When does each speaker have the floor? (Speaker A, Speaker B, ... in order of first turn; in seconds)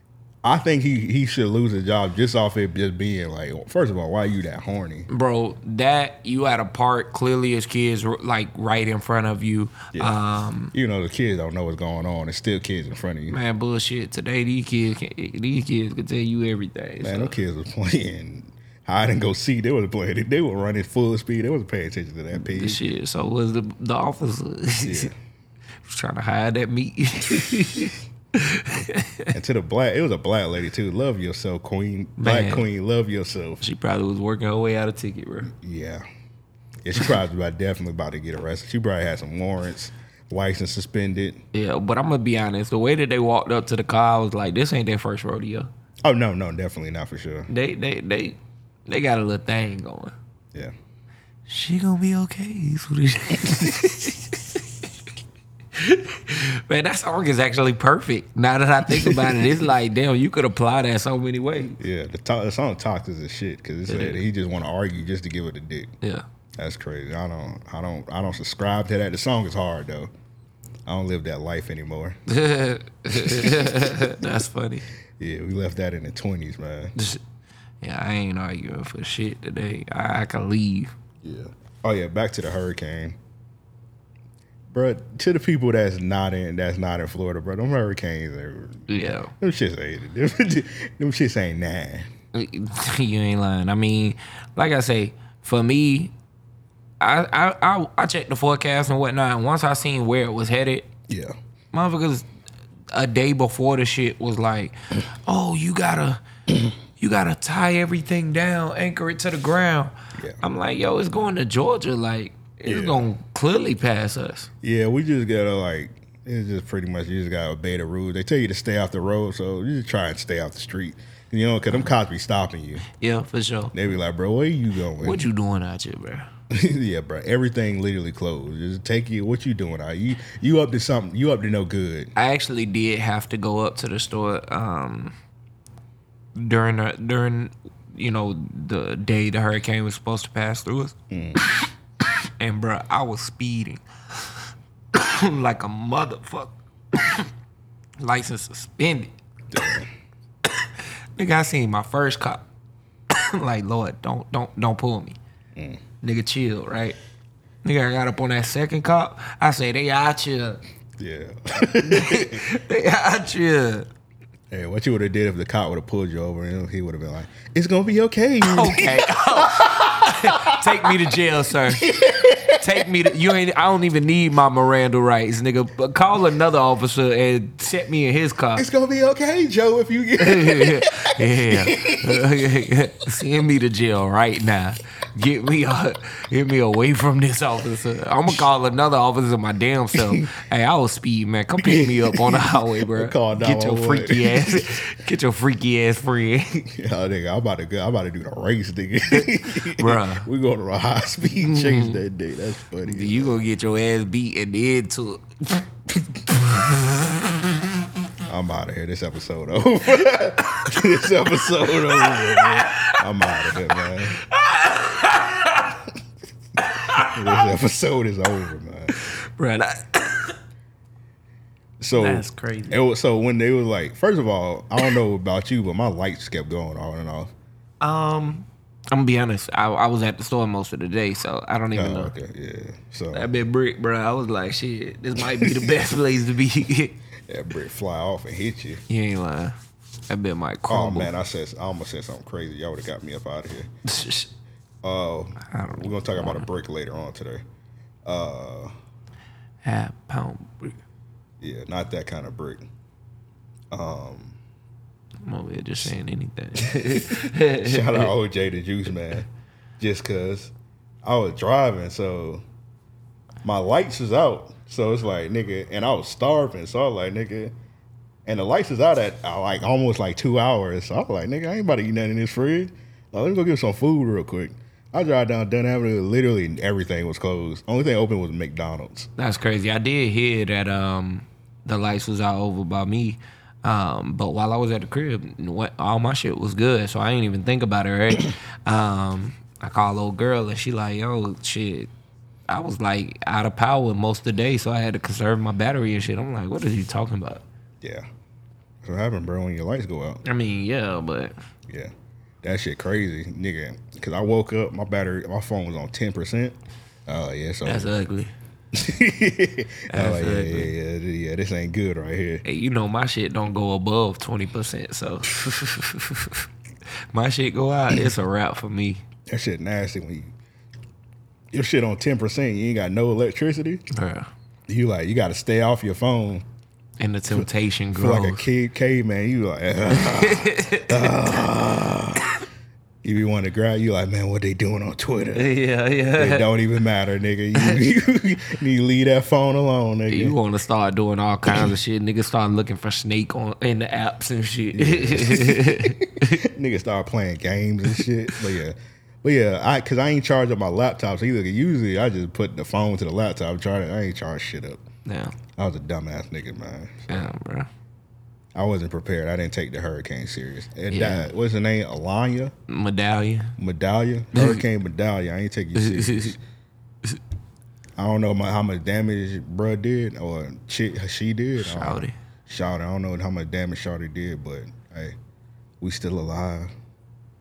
Speaker A: 0.4-5.1, 10.7-13.4, 17.0-22.8, 24.9-25.1, 29.3-33.6, 35.5-36.0, 36.8-41.4, 46.0-47.5, 58.9-59.5, 61.8-65.9, 66.6-70.1, 70.9-72.2, 73.1-74.1, 75.2-76.9, 81.2-83.2, 84.7-92.1, 101.1-101.4, 112.7-113.0, 114.6-122.8, 123.7-125.2, 126.5-132.1, 141.1-141.4, 149.5-149.9, 155.6-155.8, 161.0-162.4, 164.5-170.9, 171.7-173.1, 178.6-182.2, 191.6-194.8, 196.6-203.4, 206.1-206.4, 208.3-214.2, 217.1-218.9, 221.8-227.3, 231.7-233.3, 235.3-235.7, 237.3-238.8, 240.7-243.7, 244.8-247.4, 248.1-248.7, 251.4-252.7, 253.7-254.4, 256.7-259.3, 259.8-260.5, 261.0-262.4, 263.4-267.5, 268.3-279.1, 297.8-298.1, 298.8-300.2, 302.4-307.9, 308.7-312.4, 319.3-320.3, 321.5-323.8, 324.7-326.4, 327.3-332.3, 333.0-335.5, 336.2-340.4, 344.7-354.8, 355.6-357.3, 358.6-362.5, 363.6-366.4, 368.0-375.2, 375.8-376.7
Speaker B: 5.1-10.7, 13.3-17.4, 22.4-25.1, 25.9-29.3, 32.2-32.7, 33.6-35.5, 41.5-45.7, 47.5-50.1, 51.5-54.4, 55.8-61.8, 63.9-64.2, 72.3-74.8, 77.8-80.9, 88.9-89.3, 92.3-96.1, 97.0-100.9, 101.7-102.3, 102.9-106.2, 107.0-114.5, 123.0-123.8, 125.0-126.3, 132.2-135.1, 136.4-140.9, 142.4-147.3, 148.0-149.1, 151.2-152.4, 153.1-155.2, 156.0-157.0, 157.6-160.6, 161.9-163.9, 168.4-172.0, 172.6-178.7, 180.2-196.6, 199.1-200.3, 201.4-202.0, 202.8-205.6, 212.0-215.8, 216.7-217.5, 219.4-220.4, 221.9-222.8, 227.8-232.1, 233.1-237.0, 238.9-239.6, 240.1-241.1, 243.9-244.3, 245.5-246.5, 249.6-250.8, 255.3-258.1, 279.2-291.9, 292.5-297.4, 300.3-301.4, 307.6-308.3, 309.9-310.7, 312.4-316.4, 317.1-319.0, 323.9-324.3, 327.0-328.4, 330.0-331.1, 335.4-336.5, 340.1-346.4, 355.1-355.4, 357.1-357.7, 360.9-361.3, 362.7-363.5, 364.3-364.6, 365.8-366.4, 371.6-372.1